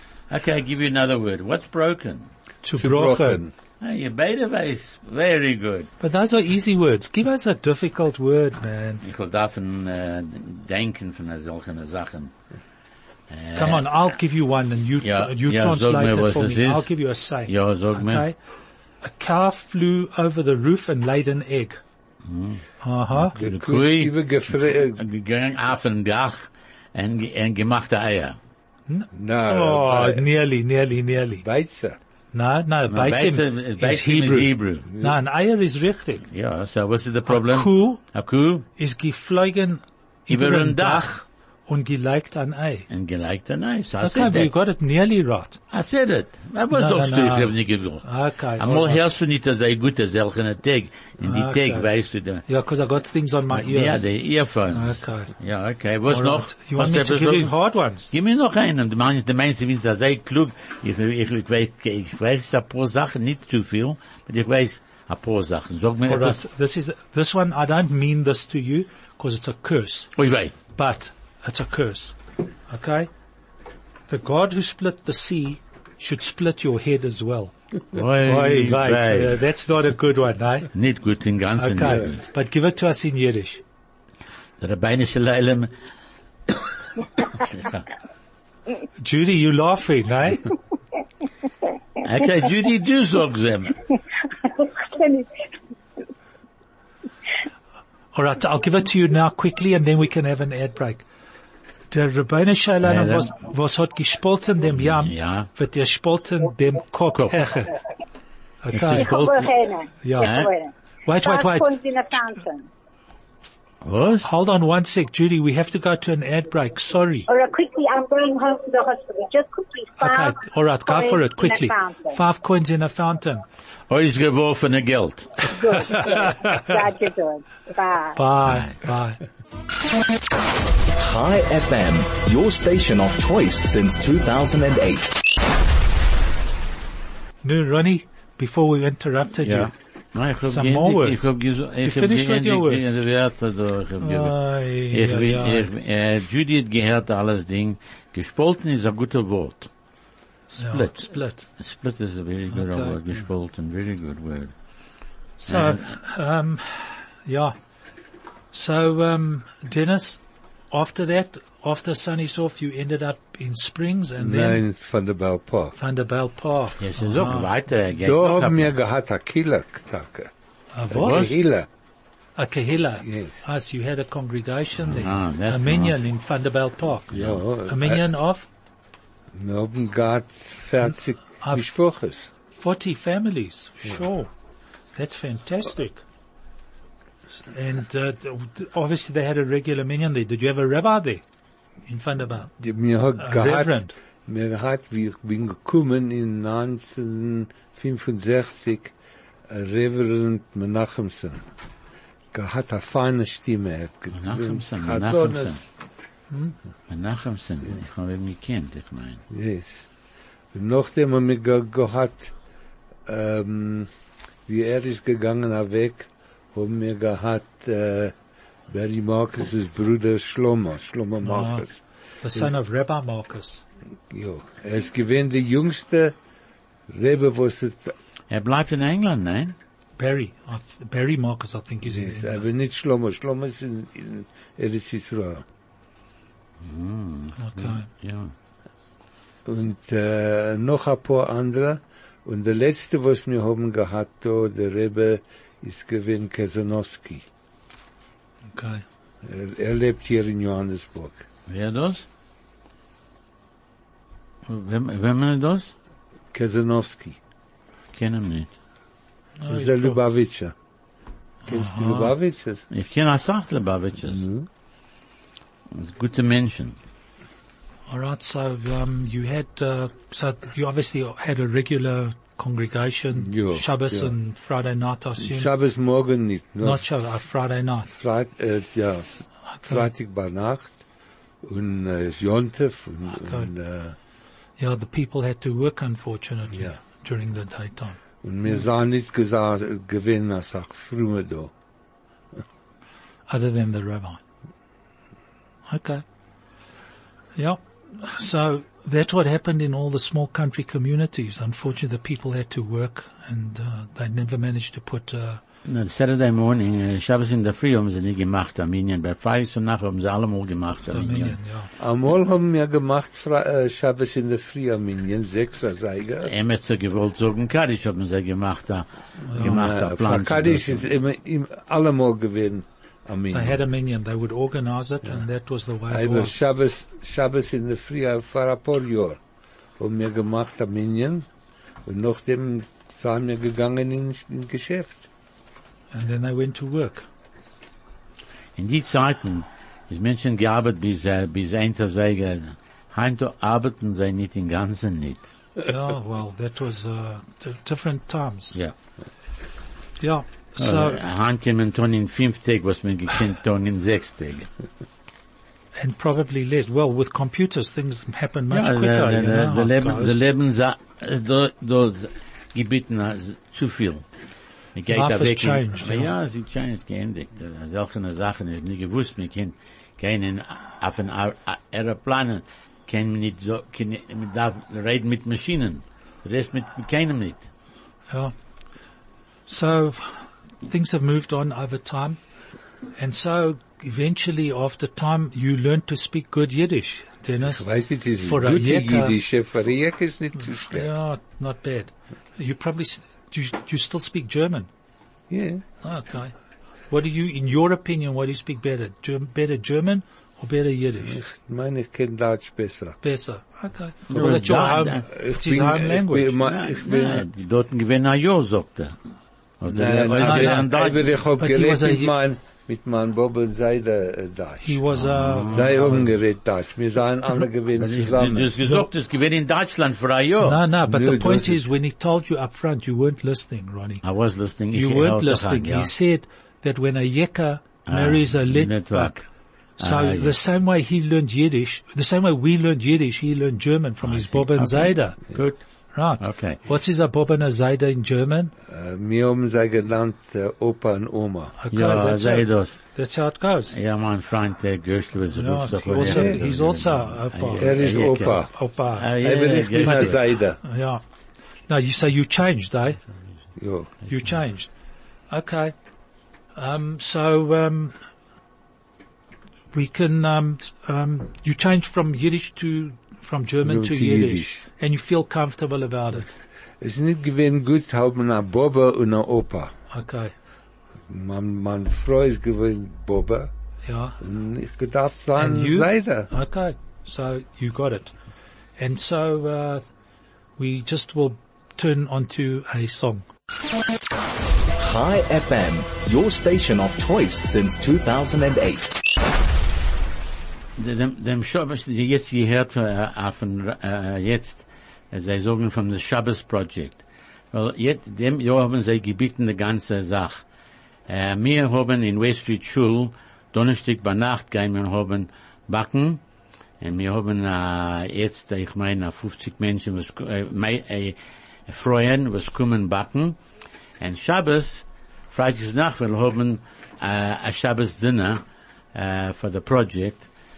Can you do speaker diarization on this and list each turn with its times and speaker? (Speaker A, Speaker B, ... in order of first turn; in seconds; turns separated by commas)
Speaker A: 0.3-2.3, Speaker B: 2.6-3.4, Speaker C: 2.8-3.5, Speaker A: 3.8-5.9, Speaker B: 6.0-9.0, Speaker A: 9.0-12.3, Speaker A: 13.3-14.0, Speaker B: 13.6-18.4, Speaker A: 15.0-16.9, Speaker A: 17.5-18.2, Speaker B: 19.0-21.8, Speaker A: 22.3-22.6, Speaker B: 22.8-23.3, Speaker A: 23.2-28.4, Speaker C: 23.4-25.0, Speaker B: 28.9-31.4, Speaker C: 29.1-30.3, Speaker C: 31.4-32.0, Speaker B: 32.3-36.3, Speaker A: 32.9-34.9, Speaker C: 34.9-35.2, Speaker A: 36.3-38.7, Speaker B: 37.3-38.0, Speaker B: 38.8-42.9, Speaker A: 40.3-41.1, Speaker A: 42.9-44.5, Speaker B: 44.0-45.6, Speaker A: 45.7-52.4, Speaker B: 46.7-49.0, Speaker B: 51.2-51.9, Speaker B: 52.5-54.0, Speaker A: 53.5-57.5, Speaker B: 54.7-55.3, Speaker B: 56.1-58.1, Speaker A: 58.1-66.4, Speaker B: 66.1-70.1, Speaker A: 70.2-70.5, Speaker B: 70.8-73.1, Speaker B: 74.1-80.7, Speaker A: 77.9-79.4, Speaker A: 80.7-82.2, Speaker B: 81.6-83.6, Speaker A: 84.6-85.7, Speaker A: 87.4-87.8, Speaker B: 89.0-90.5, Speaker A: 92.0-93.8, Speaker D: 94.4-95.3, Speaker B: 98.1-101.0, Speaker B: 101.9-107.8, Speaker A: 102.8-103.3, Speaker A: 104.8-105.5, Speaker A: 107.2-107.5, Speaker B: 108.6-109.2, Speaker A: 108.7-109.5, Speaker D: 108.9-112.7, Speaker B: 110.0-110.5, Speaker A: 110.2-110.5, Speaker B: 111.0-111.7, Speaker A: 113.8-114.3, Speaker B: 114.2-117.3, Speaker D: 117.3-122.2, Speaker B: 120.0-123.4, Speaker A: 123.9-125.5, Speaker D: 125.4-128.2, Speaker B: 125.9-126.6, Speaker B: 128.2-129.2, Speaker A: 128.4-128.7, Speaker E: 131.0-135.2, Speaker B: 137.4-139.7, Speaker A: 139.4-149.7, Speaker B: 140.5-141.3, Speaker B: 141.8-142.9, Speaker B: 144.0-145.7, Speaker B: 150.5-151.5, Speaker A: 150.6-154.5, Speaker B: 152.5-152.9, Speaker B: 155.4-157.6, Speaker A: 155.5-155.9, Speaker B: 158.5-164.6, Speaker C: 164.2-165.8, Speaker B: 165.8-167.5, Speaker A: 166.8-168.7, Speaker C: 168.0-170.3, Speaker B: 170.7-171.3, Speaker C: 170.9-171.7, Speaker A: 171.0-171.3, Speaker B: 172.4-178.5, Speaker C: 173.0-173.4, Speaker A: 174.9-175.9, Speaker A: 177.1-177.4, Speaker C: 177.2-178.1, Speaker C: 179.3-182.3, Speaker B: 181.4-181.7, Speaker B: 182.6-184.3, Speaker B: 184.9-186.0, Speaker B: 187.5-191.2, Speaker B: 191.9-192.5, Speaker C: 192.6-198.9, Speaker B: 193.2-193.9, Speaker C: 199.5-201.4, Speaker C: 202.3-205.6, Speaker A: 204.1-205.6, Speaker B: 206.3-206.6, Speaker A: 206.9-209.2, Speaker C: 209.3-209.9, Speaker C: 210.5-212.3, Speaker C: 213.1-213.9, Speaker C: 214.5-218.1, Speaker C: 218.7-221.8, Speaker B: 221.2-221.7, Speaker B: 222.2-223.6, Speaker C: 224.1-226.2, Speaker C: 226.9-227.9, Speaker A: 228.3-229.6, Speaker B: 230.0-232.4, Speaker C: 231.8-235.4, Speaker A: 236.6-238.3, Speaker B: 237.4-237.9, Speaker C: 239.4-247.3, Speaker B: 248.5-248.8, Speaker C: 249.2-251.2, Speaker A: 251.5-252.1, Speaker A: 254.5-255.7, Speaker C: 256.3-257.2, Speaker A: 257.9-258.5, Speaker B: 259.4-260.0, Speaker C: 259.5-260.5, Speaker C: 261.5-262.6, Speaker B: 261.5-262.1, Speaker A: 262.7-264.2, Speaker C: 264.1-264.5, Speaker A: 265.7-266.8, Speaker B: 267.9-275.5, Speaker C: 273.2-274.1, Speaker C: 275.2-276.9, Speaker B: 276.6-277.9, Speaker C: 277.9-280.8, Speaker B: 279.5-279.9, Speaker C: 281.4-284.0, Speaker B: 283.2-283.5, Speaker B: 284.6-288.0, Speaker C: 288.2-291.5, Speaker B: 293.3-294.2, Speaker B: 295.7-296.0, Speaker B: 297.4-305.4, Speaker A: 305.6-311.4, Speaker B: 310.9-311.7, Speaker C: 311.8-316.3, Speaker A: 316.2-320.9, Speaker B: 319.3-319.6, Speaker C: 319.4-323.6, Speaker B: 323.3-326.3, Speaker C: 325.9-329.2, Speaker C: 329.8-331.3, Speaker C: 331.9-335.1, Speaker B: 335.9-337.1, Speaker A: 338.6-345.3, Speaker B: 345.6-348.6, Speaker B: 350.0-351.0, Speaker A: 350.6-354.5, Speaker B: 355.8-360.2, Speaker A: 358.5-364.1, Speaker A: 364.8-377.5, Speaker B: 364.9-366.1, Speaker B: 379.5-382.2, Speaker B: 383.0-387.7, Speaker C: 387.4-390.9, Speaker B: 388.2-389.2, Speaker B: 390.7-394.7, Speaker C: 395.3-395.6, Speaker B: 395.8-396.3, Speaker B: 396.9-401.2, Speaker C: 401.1-403.0, Speaker B: 403.0-406.4, Speaker A: 404.1-405.0, Speaker C: 404.1-404.4, Speaker C: 405.0-407.3, Speaker A: 406.5-409.0, Speaker A: 409.6-411.1, Speaker C: 409.7-414.8, Speaker B: 410.2-412.1, Speaker B: 414.6-416.0, Speaker A: 414.9-416.0, Speaker C: 415.5-418.5, Speaker A: 417.8-420.6, Speaker B: 420.4-424.0, Speaker C: 420.9-421.6, Speaker A: 424.0-425.9, Speaker B: 424.7-429.2, Speaker A: 427.9-429.2, Speaker B: 429.8-435.2, Speaker A: 429.8-430.4, Speaker A: 434.0-435.6, Speaker B: 435.9-438.5, Speaker A: 436.2-436.6, Speaker C: 438.7-441.6, Speaker B: 441.6-443.8, Speaker A: 441.7-442.8, Speaker A: 443.7-450.2, Speaker B: 445.3-447.9, Speaker C: 446.0-446.4, Speaker C: 447.6-448.5, Speaker B: 448.5-449.1, Speaker C: 449.2-450.6, Speaker B: 449.8-451.0, Speaker B: 451.7-453.0, Speaker C: 453.6-453.9, Speaker B: 454.1-454.7, Speaker B: 455.3-455.8, Speaker B: 456.6-458.0, Speaker B: 459.7-466.3, Speaker C: 463.6-464.6, Speaker C: 466.8-469.7, Speaker B: 469.9-470.3, Speaker C: 471.1-473.5, Speaker B: 473.9-474.2, Speaker C: 474.2-476.3, Speaker B: 475.4-478.1, Speaker B: 478.8-479.8, Speaker B: 480.6-483.3, Speaker E: 484.8-489.1, Speaker A: 490.8-500.4, Speaker A: 501.1-506.2, Speaker A: 506.8-513.4, Speaker A: 514.0-518.4, Speaker A: 518.9-520.3